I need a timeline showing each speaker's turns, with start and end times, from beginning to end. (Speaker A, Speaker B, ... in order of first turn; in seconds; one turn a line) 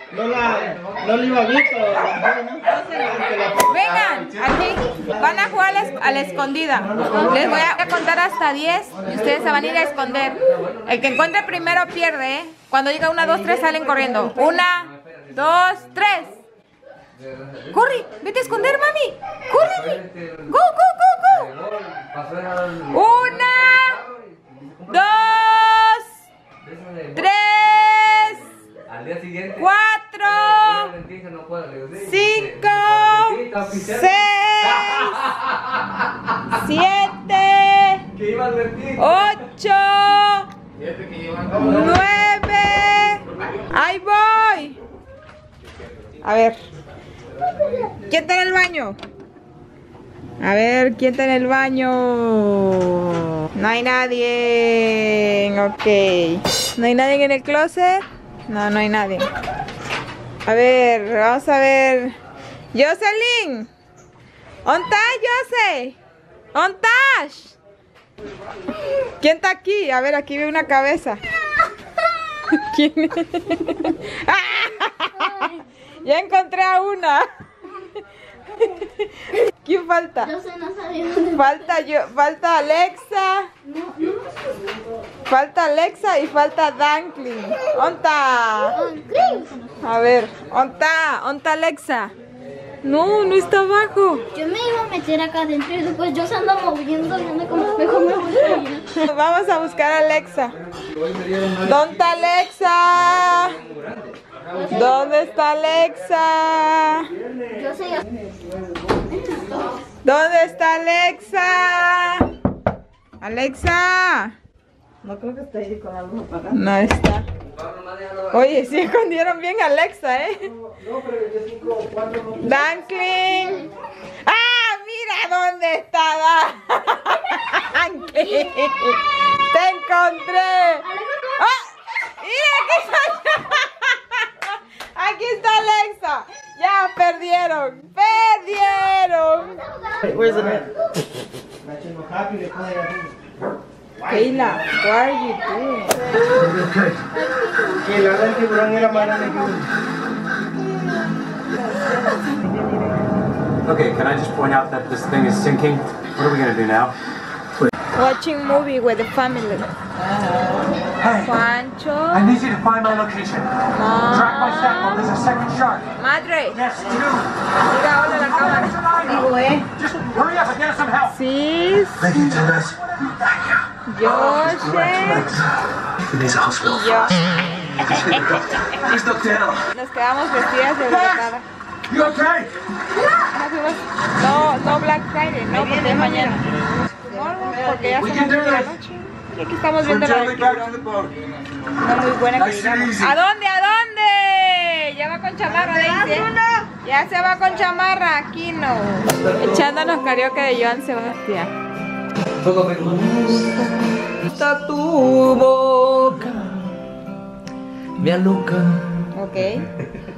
Speaker A: 0.1-3.6
Speaker B: 0.6-1.2
Speaker C: 3.6-16.4
Speaker B: 7.0-7.7
Speaker B: 10.2-11.1
Speaker B: 15.0-15.7
Speaker B: 17.1-17.8
Speaker C: 17.7-19.9
Speaker B: 19.7-20.5
Speaker C: 20.5-21.5
Speaker B: 21.3-25.3
Speaker C: 22.9-24.0
Speaker C: 24.9-26.1
Speaker B: 26.6-29.6
Speaker C: 27.1-28.5
Speaker C: 29.6-30.9
Speaker B: 30.3-34.0
Speaker C: 32.0-35.3
Speaker C: 36.5-38.0
Speaker B: 38.2-39.1
Speaker C: 39.0-40.5
Speaker B: 41.1-41.6
Speaker C: 41.6-44.8
Speaker C: 46.2-46.6
Speaker C: 47.9-49.0
Speaker C: 50.4-59.3
Speaker C: 60.4-62.1
Speaker C: 62.7-63.7
Speaker C: 64.6-66.0
Speaker C: 66.5-67.6
Speaker C: 69.2-71.2
Speaker C: 72.4-77.8
Speaker D: 75.3-75.6
Speaker C: 78.5-80.3
Speaker D: 80.2-81.5
Speaker C: 81.3-83.5
Speaker D: 83.6-84.5
Speaker C: 85.3-88.8
Speaker D: 88.7-89.7
Speaker C: 89.8-92.1
Speaker C: 92.8-94.2
Speaker D: 94.3-98.8
Speaker C: 98.9-100.5
Speaker C: 101.6-103.6
Speaker B: 103.7-104.2
Speaker D: 104.5-104.8
Speaker C: 104.7-107.1
Speaker D: 107.5-108.0
Speaker D: 109.2-109.8
Speaker C: 110.0-112.3
Speaker C: 113.2-114.3
Speaker E: 115.0-116.5
Speaker C: 116.5-117.2
Speaker B: 117.6-118.5
Speaker C: 118.3-120.5
Speaker A: 121.0-122.2
Speaker C: 122.3-134.3
Speaker D: 130.9-131.4
Speaker C: 134.9-139.6
Speaker A: 140.1-140.7
Speaker A: 141.6-143.1
Speaker C: 144.1-146.2
Speaker D: 147.1-147.8
Speaker A: 147.8-149.7
Speaker F: 153.6-156.9
Speaker C: 157.9-159.7
Speaker E: 160.3-160.6
Speaker C: 161.1-162.5
Speaker F: 162.1-163.5
Speaker C: 163.7-165.2
Speaker F: 164.1-165.9
Speaker C: 165.9-166.7
Speaker F: 166.6-167.3
Speaker C: 167.6-169.2
Speaker F: 168.7-171.1
Speaker E: 169.0-169.7
Speaker C: 171.0-172.4
Speaker F: 172.0-173.6
Speaker C: 173.8-175.3
Speaker F: 174.3-175.3
Speaker F: 176.1-176.5
Speaker C: 176.5-177.2
Speaker C: 177.9-179.0
Speaker F: 178.0-178.3
Speaker F: 178.9-179.6
Speaker C: 179.7-182.2
Speaker F: 181.9-182.5
Speaker C: 182.9-186.4
Speaker E: 185.9-186.3
Speaker C: 187.0-190.8
Speaker E: 187.7-188.0
Speaker F: 188.1-188.6
Speaker F: 189.8-191.1
Speaker C: 191.8-201.5
Speaker F: 192.3-193.1
Speaker B: 199.1-199.6
Speaker B: 202.4-206.7
Speaker B: 208.0-209.1
Speaker C: 209.1-209.7